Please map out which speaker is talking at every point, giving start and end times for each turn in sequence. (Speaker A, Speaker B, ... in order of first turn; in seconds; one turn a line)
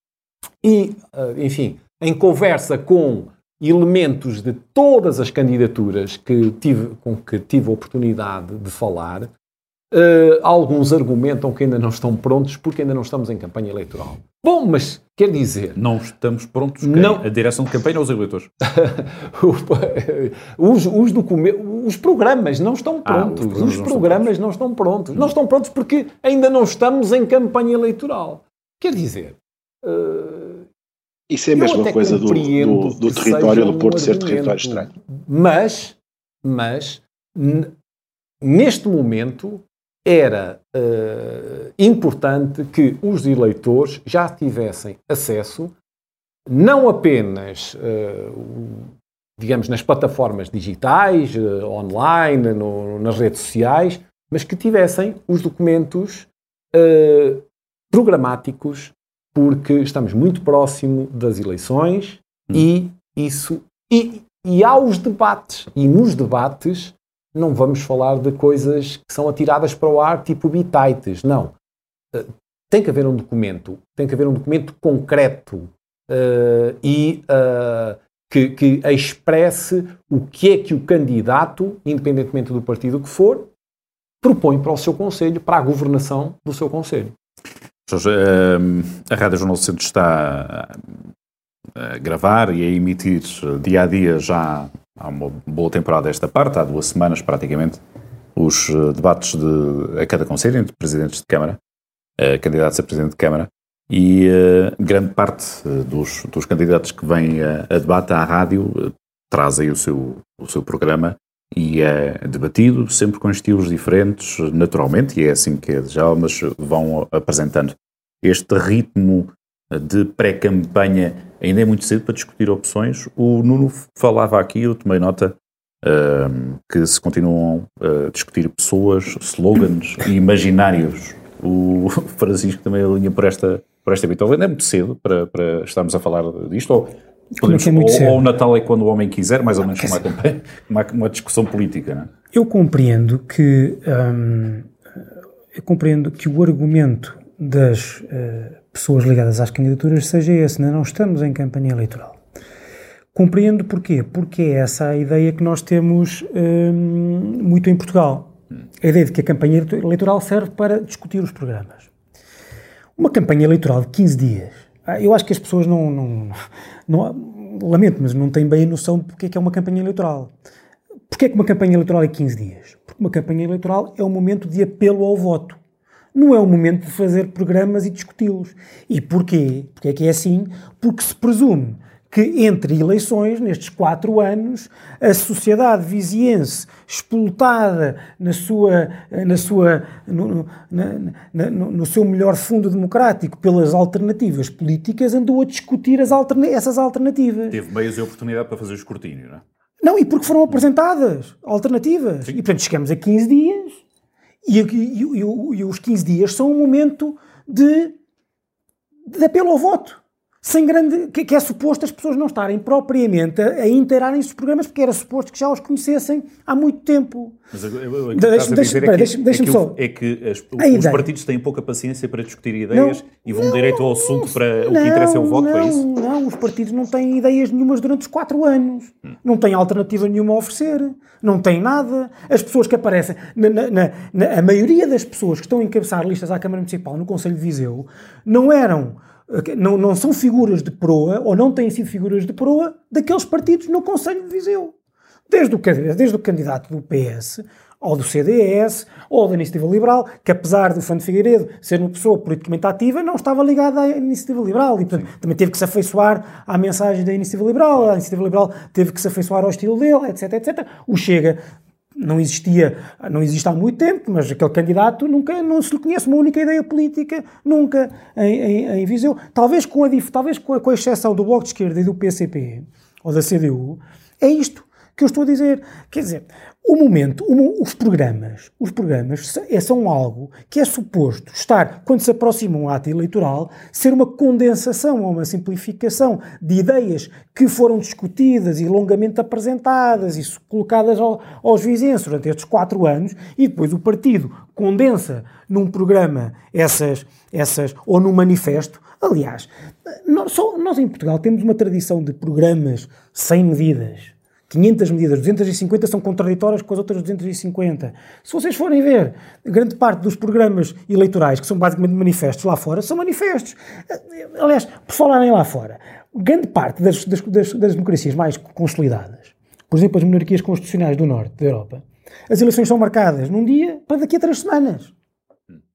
Speaker A: 0.6-9.3
Speaker A: 9.9-15.8
Speaker B: 15.8-18.5
Speaker A: 16.8-17.2
Speaker A: 18.6-30.7
Speaker B: 23.1-24.3
Speaker C: 31.3-34.9
Speaker A: 31.5-37.7
Speaker A: 38.4-45.7
Speaker A: 46.5-71.5
Speaker A: 72.1-83.5
Speaker A: 84.2-87.1
Speaker B: 87.9-90.8
Speaker B: 91.8-97.8
Speaker B: 98.3-101.6
Speaker B: 102.2-142.1
Speaker D: 137.4-138.2
Speaker D: 142.3-144.7
Speaker D: 145.5-152.1
Speaker D: 153.1-161.9
Speaker D: 163.0-166.4
Speaker D: 166.9-170.3
Speaker D: 171.1-175.6
Speaker D: 176.1-197.6
Speaker B: 197.5-199.4
Speaker D: 199.8-203.8
Speaker D: 204.4-207.9
Speaker D: 209.1-217.3
Speaker B: 217.5-225.8
Speaker D: 218.1-219.8
Speaker D: 220.6-221.1
Speaker D: 222.7-244.7
Speaker D: 245.3-261.4
Speaker D: 262.0-324.9